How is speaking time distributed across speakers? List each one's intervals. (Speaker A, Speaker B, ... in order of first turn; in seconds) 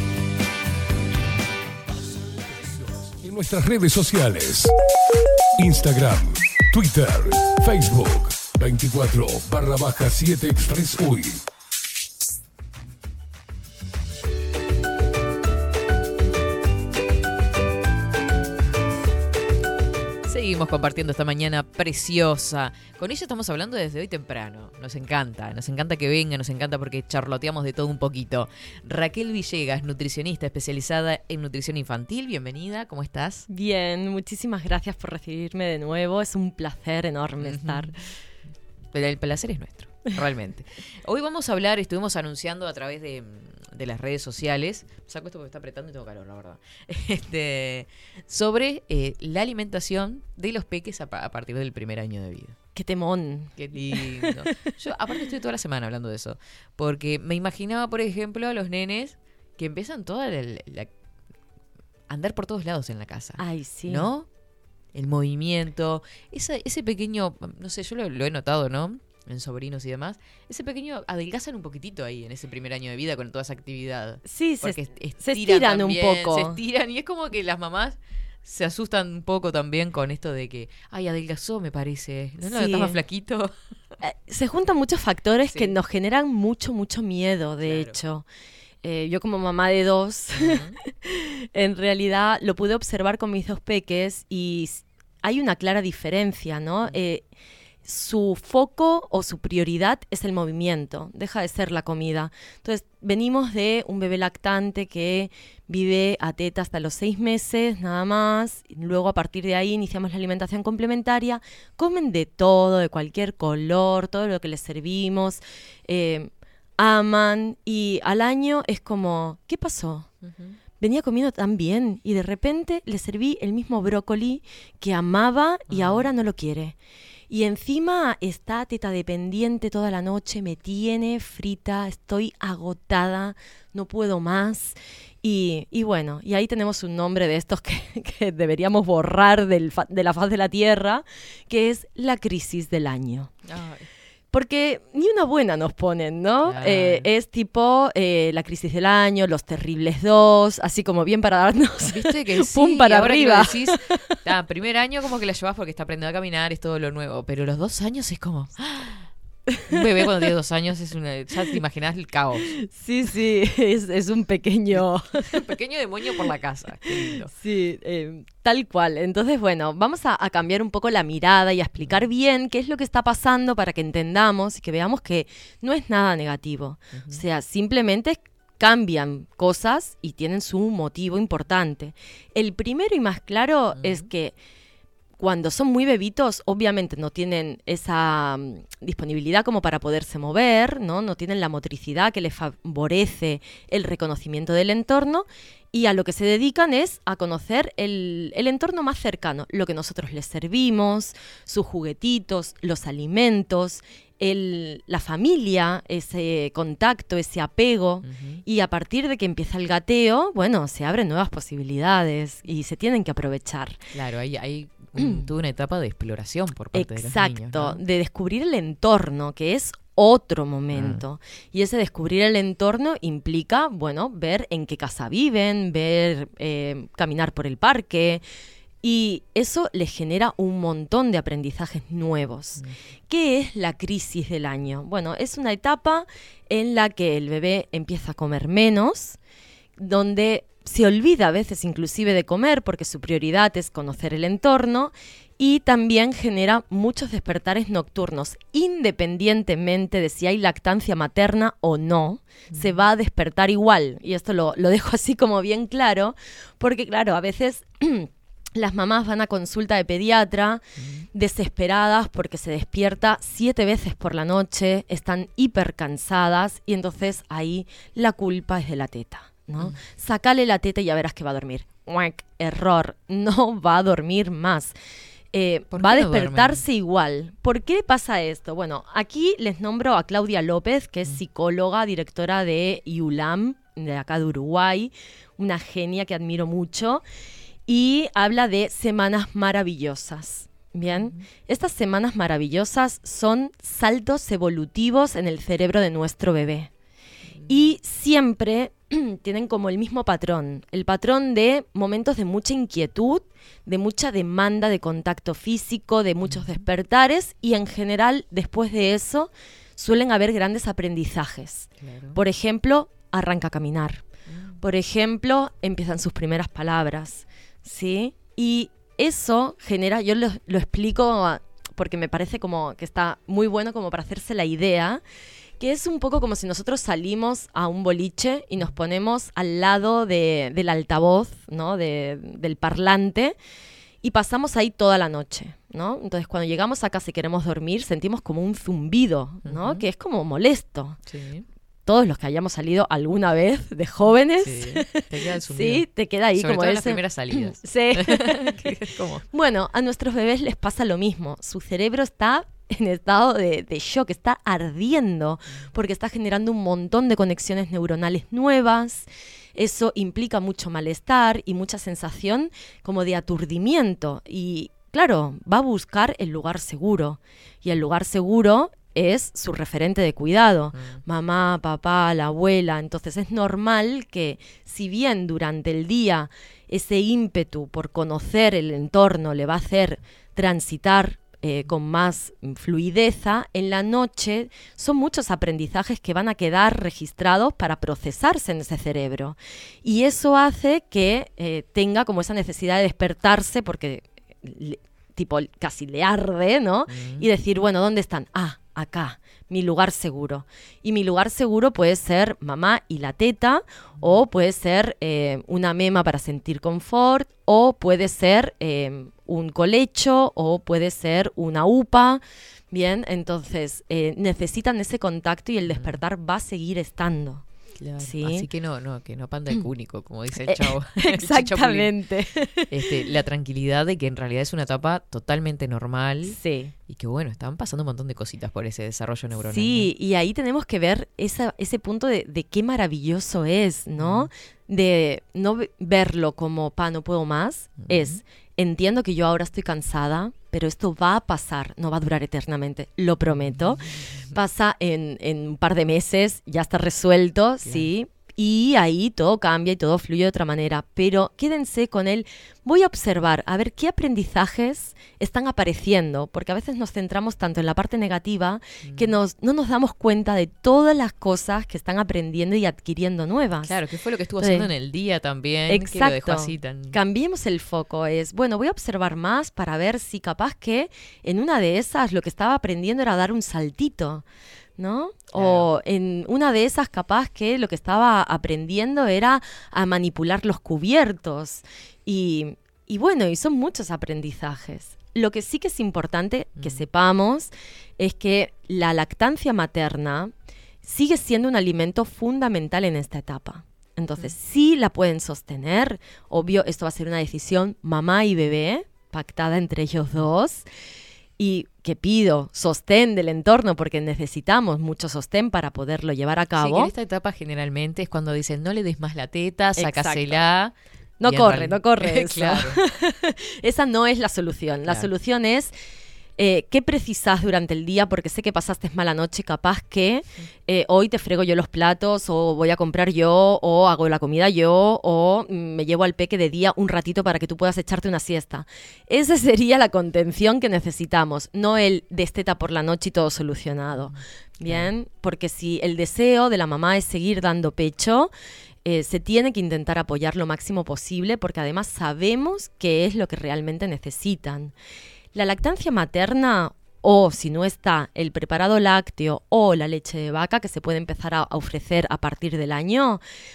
Speaker A: 2.9-4.7, 5.6-11.4
Speaker B: 20.3-33.5, 37.4-38.0, 38.9-52.6, 53.5-60.9, 62.1-64.3, 64.9-83.5, 85.5-85.8, 87.6-88.0, 90.4-90.8, 120.2-120.6, 125.7-126.1, 143.4-143.9, 146.4-147.1, 151.8-159.1, 159.7-162.5, 164.8-167.3, 171.8-172.1, 176.9-177.2, 183.7-184.1, 208.0-208.4, 213.9-217.8, 220.7-221.0, 252.5-252.8, 260.8-261.1, 275.7-276.6, 290.9-291.2, 297.3-297.7, 306.2-306.6, 311.8-312.2, 314.3-314.6, 339.4-339.9, 341.1-341.4, 344.4-349.2, 370.7-371.0, 396.9-397.3, 415.7-416.0, 417.8-421.9, 422.7-429.9, 434.0-434.3, 437.8-438.2, 458.8-459.1, 463.6-467.0, 475.3-475.7, 486.6-486.9, 506.6-512.8, 514.9-515.1, 534.0-534.9
Speaker C: 33.5-38.0, 52.7-54.6, 63.4-64.1, 74.3-76.6, 82.4-83.0, 84.0-88.2, 88.8-97.2, 97.8-120.1, 120.8-126.7, 127.3-143.3, 144.3-154.2, 162.4-165.5, 166.9-184.3, 185.2-213.8, 216.7-228.2, 228.8-239.2, 239.8-274.7, 275.3-287.0, 287.7-296.7, 297.5-314.0, 314.6-325.0, 325.6-333.4, 334.0-341.0, 341.9-417.4, 418.0-418.5, 420.4-423.0, 426.2-426.7, 429.4-463.8, 464.4-464.7, 465.7-474.2, 474.8-500.7, 501.4-506.9, 509.8-510.4, 511.2-515.7, 516.4-538.3, 538.9-544.7, 545.3-553.2